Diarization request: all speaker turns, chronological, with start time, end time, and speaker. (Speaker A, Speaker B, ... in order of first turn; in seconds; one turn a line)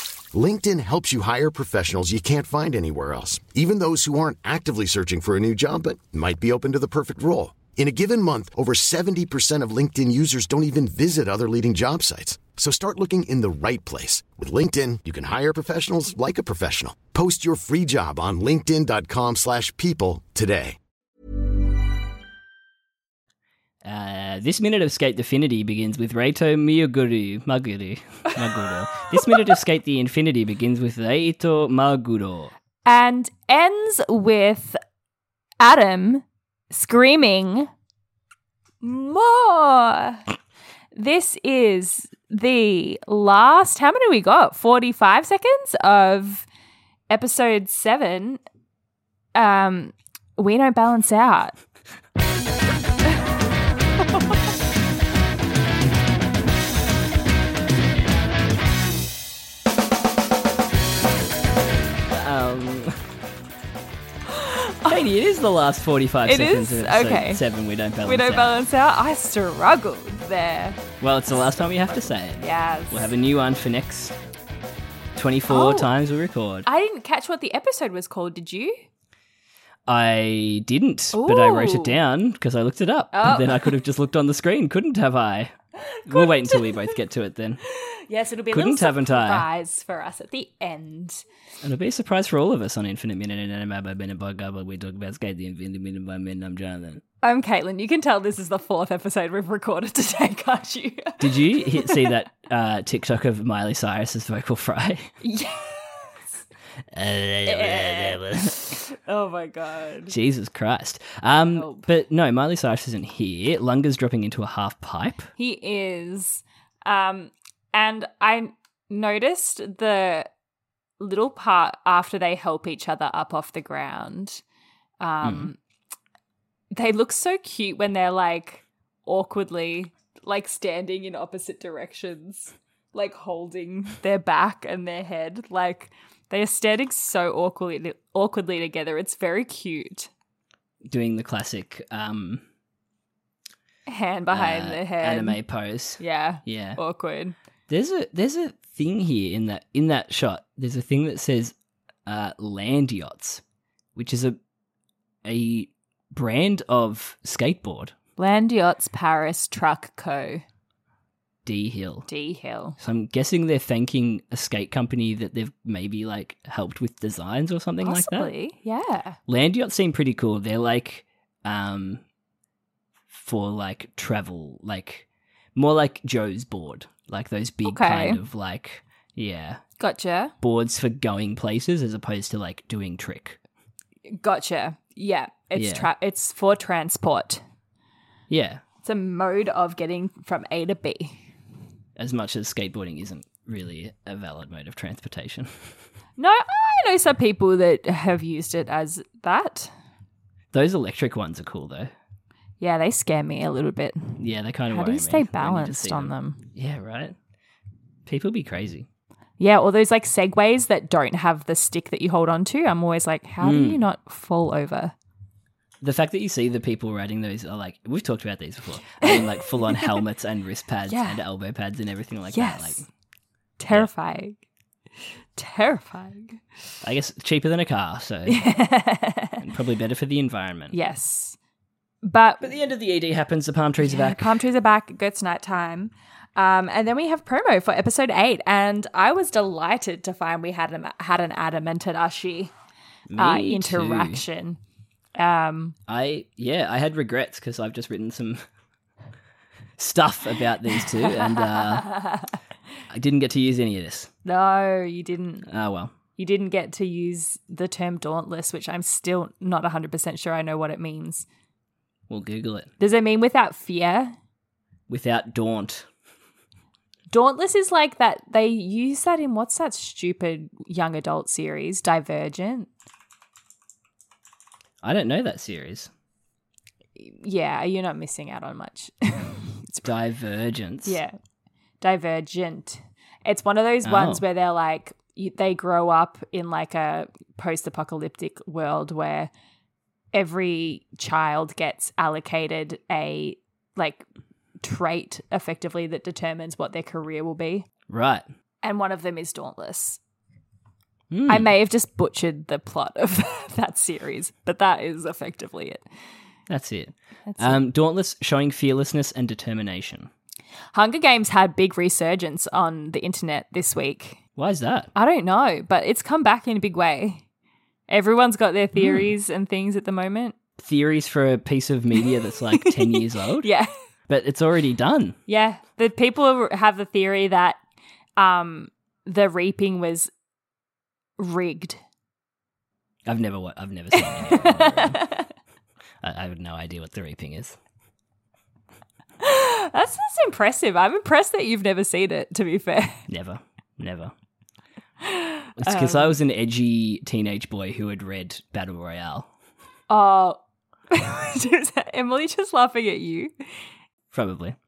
Speaker A: 0.3-20.8
Speaker B: 23.8-32.5
Speaker C: 32.8-34.8
Speaker C: 35.6-37.7
Speaker C: 38.8-40.2
Speaker C: 40.9-46.5
Speaker C: 47.1-48.4
Speaker C: 49.3-51.5
Speaker B: 62.1-63.0
Speaker C: 64.3-65.0
Speaker B: 64.9-68.6
Speaker C: 66.2-67.4
Speaker C: 68.0-73.1
Speaker B: 71.0-74.2
Speaker B: 75.2-76.7
Speaker C: 75.5-75.9
Speaker C: 76.6-78.8
Speaker B: 79.9-85.5
Speaker C: 81.1-82.0
Speaker C: 83.1-83.7
Speaker C: 85.8-87.0
Speaker B: 86.0-87.6
Speaker C: 87.7-91.2
Speaker B: 88.5-89.5
Speaker B: 91.6-97.0
Speaker C: 97.2-102.1
Speaker B: 101.2-105.1
Speaker C: 105.2-106.3
Speaker B: 106.9-108.7
Speaker C: 107.5-110.1
Speaker B: 110.1-115.3
Speaker C: 111.5-111.9
Speaker C: 115.4-120.3
Speaker C: 121.0-124.4
Speaker C: 125.0-125.6
Speaker B: 125.2-125.5
Speaker C: 126.7-140.1
Speaker B: 140.9-142.4
Speaker C: 143.9-145.4
Speaker B: 144.3-146.8
Speaker C: 146.0-147.3
Speaker B: 147.7-151.5
Speaker B: 152.1-153.4
Speaker B: 153.9-154.4
Speaker B: 155.2-157.9
Speaker C: 158.2-160.4
Speaker B: 161.4-162.1
Speaker C: 162.1-162.8
Speaker B: 162.8-168.3
Speaker C: 167.8-169.2
Speaker B: 169.3-172.0
Speaker B: 173.1-179.6
Speaker C: 177.6-178.2
Speaker C: 179.8-180.3
Speaker B: 180.4-183.4
Speaker C: 184.1-187.4
Speaker B: 185.5-185.9
Speaker B: 188.3-188.6
Speaker C: 188.8-191.3
Speaker B: 192.0-195.8
Speaker C: 196.2-199.7
Speaker B: 200.5-201.9
Speaker C: 202.6-206.5
Speaker B: 204.2-207.1
Speaker B: 208.1-208.9
Speaker C: 209.4-214.9
Speaker B: 213.4-213.8
Speaker B: 215.8-222.9
Speaker C: 219.0-220.0
Speaker C: 220.9-221.2
Speaker C: 222.3-222.8
Speaker C: 223.6-224.4
Speaker C: 225.3-226.4
Speaker B: 226.8-228.5
Speaker C: 228.3-229.4
Speaker B: 229.4-230.8
Speaker C: 230.7-231.4
Speaker C: 232.0-232.4
Speaker B: 232.4-234.4
Speaker C: 233.8-242.5
Speaker B: 243.1-244.2
Speaker C: 243.2-244.6
Speaker C: 245.1-245.8
Speaker B: 245.9-248.4
Speaker B: 249.8-251.9
Speaker C: 250.8-252.3
Speaker B: 252.9-254.1
Speaker C: 254.2-255.5
Speaker B: 255.5-255.9
Speaker C: 256.2-261.2
Speaker B: 262.1-262.7
Speaker C: 262.8-264.1
Speaker B: 264.9-265.8
Speaker C: 267.1-272.7
Speaker B: 274.8-275.9
Speaker C: 277.0-279.9
Speaker B: 279.8-281.0
Speaker C: 280.8-281.1
Speaker C: 281.8-289.3
Speaker B: 283.8-284.2
Speaker C: 290.1-294.0
Speaker C: 294.6-297.6
Speaker B: 297.9-298.2
Speaker C: 298.6-300.0
Speaker B: 301.1-301.5
Speaker C: 301.3-305.8
Speaker B: 306.5-310.1
Speaker C: 307.3-307.6
Speaker C: 310.7-314.2
Speaker B: 314.4-314.9
Speaker C: 314.9-317.2
Speaker C: 317.9-320.4
Speaker B: 318.8-319.0
Speaker B: 320.6-323.5
Speaker C: 322.0-323.7
Speaker B: 324.1-325.2
Speaker C: 325.3-327.6
Speaker C: 328.2-330.1
Speaker C: 331.2-331.8
Speaker B: 333.1-335.0
Speaker C: 333.9-335.3
Speaker B: 336.0-337.6
Speaker C: 339.2-343.1
Speaker B: 343.1-344.1
Speaker C: 345.0-346.2
Speaker B: 345.6-349.3
Speaker C: 349.9-350.4
Speaker C: 350.9-353.3
Speaker B: 354.1-354.6